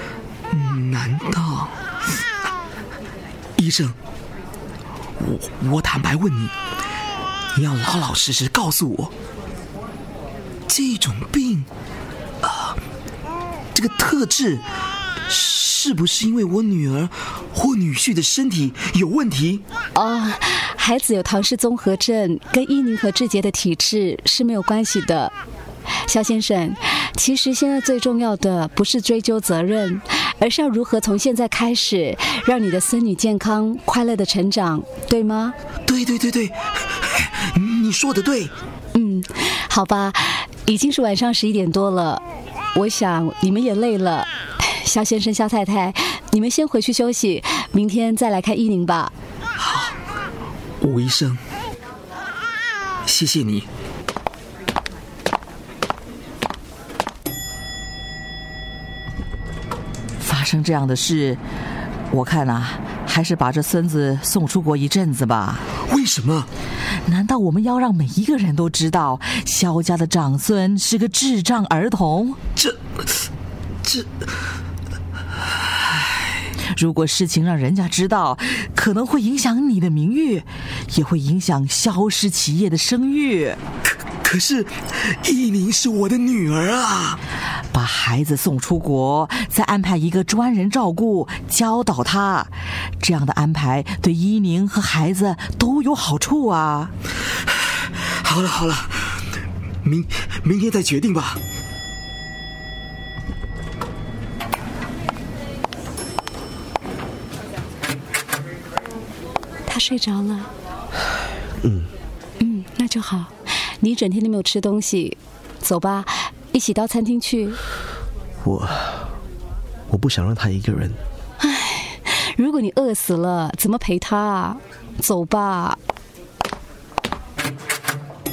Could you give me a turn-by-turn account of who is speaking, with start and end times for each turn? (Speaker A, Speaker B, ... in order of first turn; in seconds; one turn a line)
Speaker A: 0.5-1.7
Speaker A: 3.6-4.0
Speaker A: 5.2-6.5
Speaker A: 7.5-9.1
Speaker A: 10.7-11.7
Speaker A: 12.4-12.8
Speaker A: 13.8-14.6
Speaker A: 15.3-19.6
Speaker B: 19.9-25.3
Speaker B: 26.1-35.5
Speaker A: 35.9-38.5
Speaker B: 39.0-42.2
Speaker B: 42.8-49.1
Speaker A: 49.6-49.9
Speaker A: 50.8-51.4
Speaker A: 53.1-53.7
Speaker C: 60.2-61.4
Speaker C: 62.1-65.6
Speaker A: 65.8-66.5
Speaker C: 66.9-72.4
Speaker C: 76.7-83.6
Speaker A: 84.2-87.2
Speaker C: 87.7-96.9
Speaker A: 98.2-99.0
Speaker A: 99.8-101.4
Speaker B: 109.7-110.5
Speaker D: 111.6-111.9
Speaker B: 112.4-117.6
Speaker D: 118.4-119.1
Speaker D: 119.9-121.0
Speaker B: 121.4-125.8